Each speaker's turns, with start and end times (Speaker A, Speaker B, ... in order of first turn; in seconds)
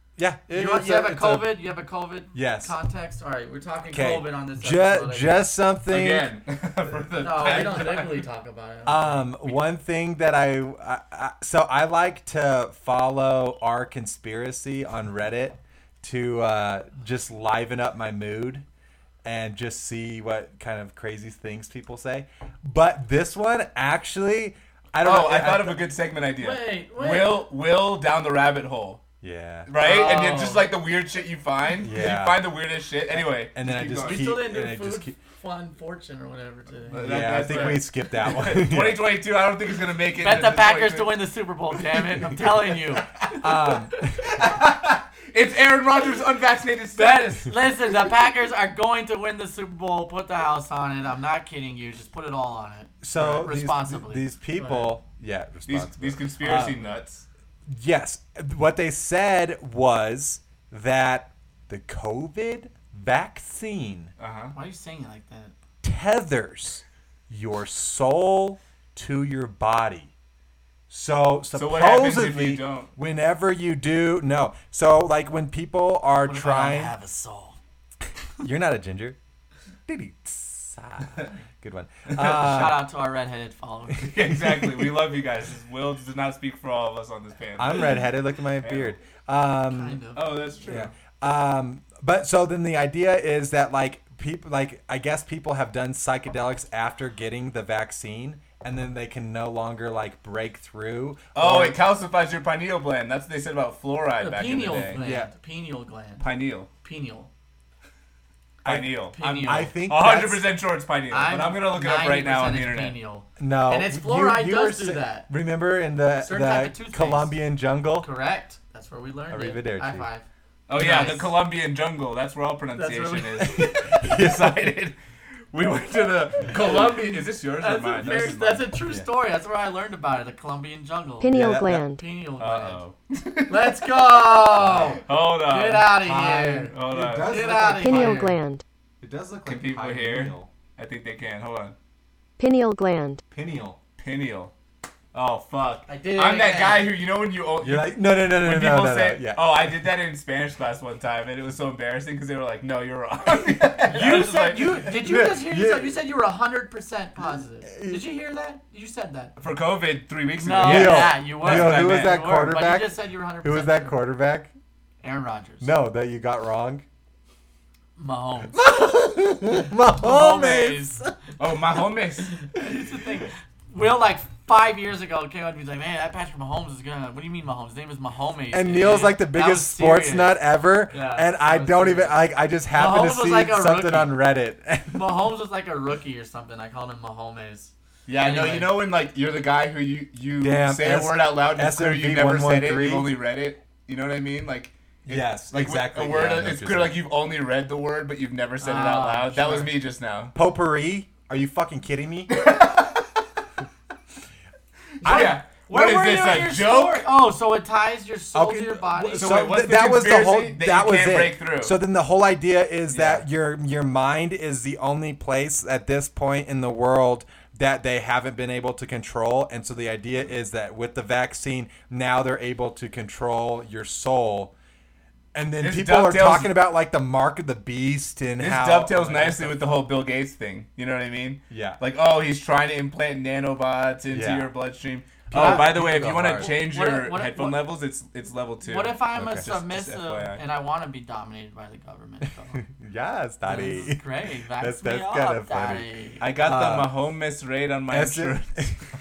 Speaker A: 0.2-1.6, 2.3-2.7, 3.9-6.3, 7.3-7.9, 8.8-18.6, 19.2-25.9, 29.2-29.7, 31.8-32.5, 33.1-35.2, 36.9-39.1, 43.4-44.3, 53.0-57.0, 57.7-64.1, 65.8-70.1, 70.9-76.9, 78.4-79.2, 79.9-82.8, 84.3-84.8, 87.6-90.0, 90.7-101.8, 104.9-105.3, 108.6-110.5, 113.4-118.1, 119.3-120.1, 123.4-124.7, 128.1-129.1, 131.3-131.8, 134.6-135.0, 136.1-138.3, 139.0-140.5, 143.3-143.8, 147.6-149.6, 153.8-156.0, 157.2-158.1, 160.6-164.5, 165.6-166.8, 168.5-171.1, 178.5-185.2, 190.4-193.2, 195.1-197.0, 200.3-202.5, 205.0-205.3, 208.3-224.5, 225.3-229.6, 231.5-231.8, 234.1-234.5, 235.3-236.6, 239.2-239.5, 242.6-246.9, 247.9-248.8
Speaker B: 0.5-5.4, 7.2-9.3, 26.4-27.5, 29.8-30.7, 34.0-37.8, 40.2-43.1, 46.9-55.0, 64.5-65.5, 76.2-77.6, 82.2-84.1, 89.7-90.6, 104.2-106.3, 106.8-107.3, 109.1-109.7, 111.1-115.3, 116.2-117.3, 118.0-121.3, 122.8-123.5, 126.5-131.3, 131.9-132.8, 133.5-138.3, 145.9-146.9, 153.9-159.3, 160.4-164.0, 165.0-165.7, 168.0-168.6, 169.9-171.0, 172.3-184.2, 184.9-188.7, 198.6-199.7, 205.0-209.4, 235.3-237.6, 238.6-242.6, 243.4-246.2
Speaker C: 5.9-8.2, 25.0-29.0, 29.7-34.3, 36.9-41.3, 44.4-44.7, 45.3-47.5, 55.7-57.2, 64.2-64.5, 71.5-72.9, 84.0-88.0, 88.6-89.0, 90.1-90.9, 101.3-105.0, 106.2-106.7, 108.6-113.0, 120.7-125.0, 125.5-128.7, 132.4-133.5, 134.4-137.5, 139.4-141.8, 144.0-144.5, 145.1-154.9, 159.4-162.2, 171.4-172.3, 188.1-200.3, 202.3-203.0, 205.0-207.1, 209.0-211.8, 212.9-213.2, 225.6-226.5, 228.4-240.4, 246.2-248.8
Speaker D: 131.2-132.0, 137.7-138.6, 142.4-143.2